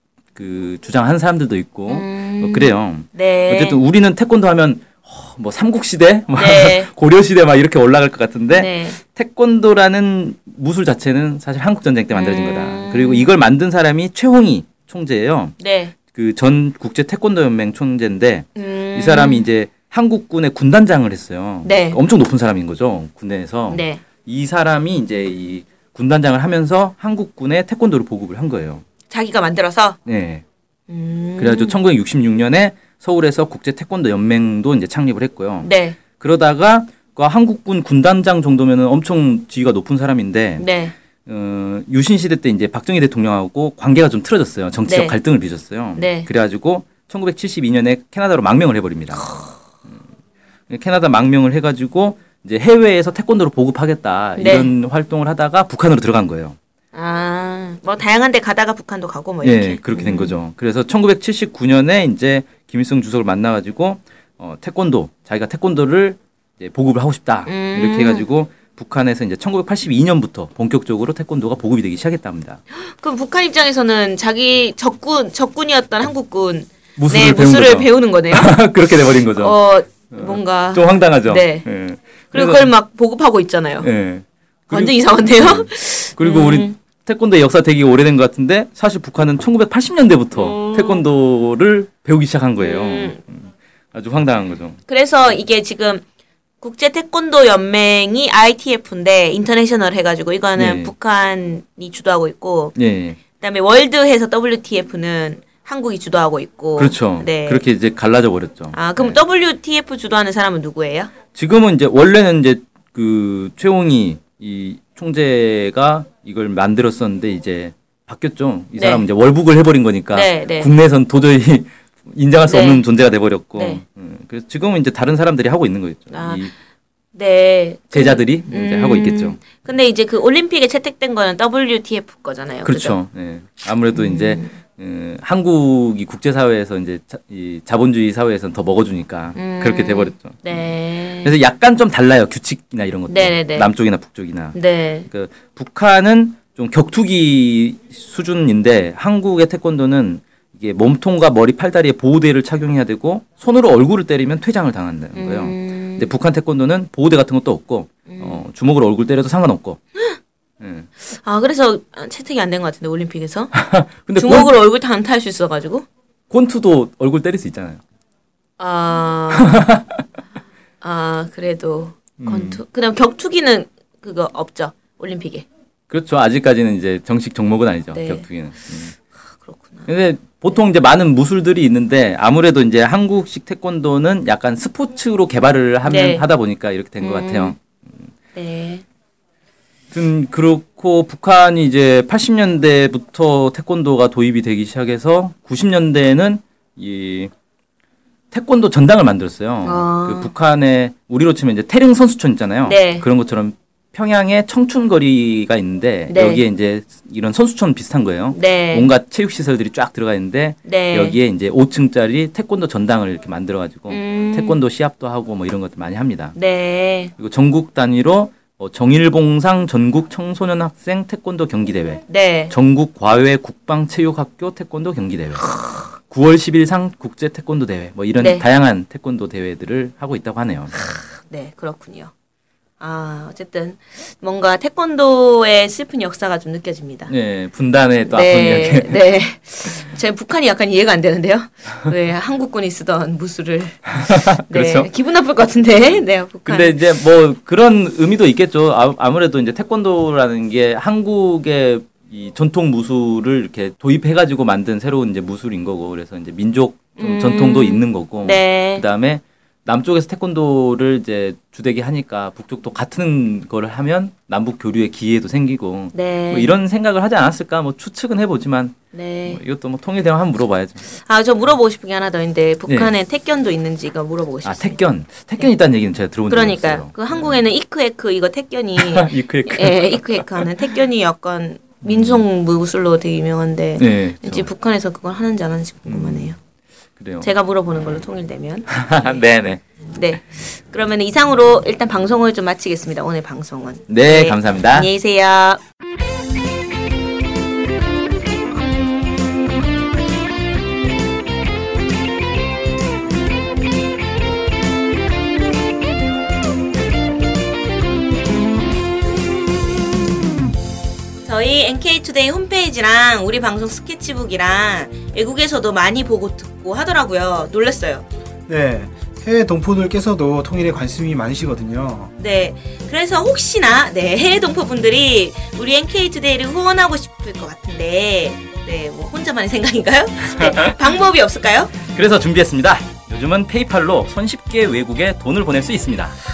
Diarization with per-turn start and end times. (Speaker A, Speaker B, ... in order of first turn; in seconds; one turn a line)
Speaker A: 0.3-15.5
Speaker B: 1.9-3.8
Speaker B: 6.4-6.9
Speaker B: 8.5-9.0
Speaker B: 12.1-13.3
Speaker B: 15.6-15.9
Speaker A: 16.1-28.8
Speaker B: 18.6-19.5
Speaker B: 21.6-22.0
Speaker B: 23.7-24.0
Speaker B: 29.1-30.0
Speaker A: 30.1-30.4
Speaker B: 30.9-31.8
Speaker A: 31.4-40.6
Speaker B: 35.6-36.0
Speaker B: 40.6-40.9
Speaker A: 41.2-49.2
Speaker B: 44.9-45.1
Speaker B: 46.0-46.3
Speaker B: 49.2-49.6
Speaker A: 50.7-56.6
Speaker B: 54.4-54.7
Speaker B: 56.9-60.4
Speaker A: 59.4-72.6
Speaker B: 67.5-68.2
Speaker B: 72.7-81.7
Speaker A: 77.0-79.6
Speaker A: 80.1-82.7
Speaker B: 82.3-83.9
Speaker A: 83.8-94.8
Speaker B: 84.7-86.7
Speaker B: 90.3-91.0
Speaker B: 92.6-93.2
Speaker B: 94.9-96.0
Speaker B: 96.6-102.7
Speaker A: 100.5-100.9
Speaker A: 102.7-103.2
Speaker B: 103.4-107.6
Speaker A: 106.8-109.2
Speaker B: 108.7-111.1
Speaker A: 111.3-126.5
Speaker B: 118.7-119.0
Speaker B: 120.1-120.7
Speaker B: 122.4-122.8
Speaker B: 123.5-123.8
Speaker B: 126.1-126.5
Speaker B: 127.1-133.0
Speaker A: 127.9-129.4
Speaker A: 132.6-140.6
Speaker B: 133.9-134.6
Speaker B: 139.3-141.3
Speaker A: 141.1-159.8
Speaker B: 143.1-143.7
Speaker B: 144.5-145.1
Speaker B: 155.1-156.1
Speaker B: 158.1-158.4
Speaker A: 160.6-160.9
Speaker B: 161.0-163.5
Speaker A: 163.5-164.5
Speaker B: 164.2-165.8
Speaker A: 166.3-167.8
Speaker B: 168.6-169.5
Speaker A: 169.3-169.8
Speaker B: 170.8-175.4
Speaker A: 172.2-172.6
Speaker A: 175.9-178.9
Speaker B: 177.9-178.2
Speaker B: 179.3-179.9
Speaker A: 179.9-187.6
Speaker B: 185.8-186.2
Speaker B: 187.0-187.6
Speaker B: 188.3-188.8
Speaker A: 189.9-197.3
Speaker A: 198.3-216.3
Speaker B: 199.6-200.3
Speaker B: 202.7-203.1
Speaker B: 206.1-206.4
Speaker B: 208.3-208.9
Speaker B: 210.6-211.1
Speaker B: 213.9-214.6
Speaker B: 216.3-217.1
Speaker A: 217.2-225.4
Speaker B: 222.1-222.5
Speaker B: 225.4-225.9
Speaker A: 226.1-230.7
Speaker B: 228.2-228.4
Speaker B: 230.7-232.1
Speaker B: 232.8-237.1
Speaker A: 237.1-239.1
Speaker B: 238.1-246.8
Speaker A: 244.0-244.9
Speaker A: 245.8-270.8
Speaker B: 257.0-258.8
Speaker B: 265.9-266.5
Speaker B: 268.9-269.4
Speaker B: 270.9-274.8
Speaker A: 272.7-272.9
Speaker A: 274.4-277.4
Speaker B: 276.3-286.4
Speaker A: 278.8-280.5
Speaker A: 281.8-282.2
Speaker A: 283.8-284.5
Speaker A: 285.9-286.3
Speaker A: 287.0-287.3
Speaker B: 287.2-289.2
Speaker A: 288.7-289.6
Speaker B: 289.9-295.6
Speaker A: 293.9-294.9
Speaker B: 311.2-318.0
Speaker C: 318.5-322.1
Speaker B: 322.2-331.7
Speaker A: 330.3-330.7
Speaker A: 331.9-336.2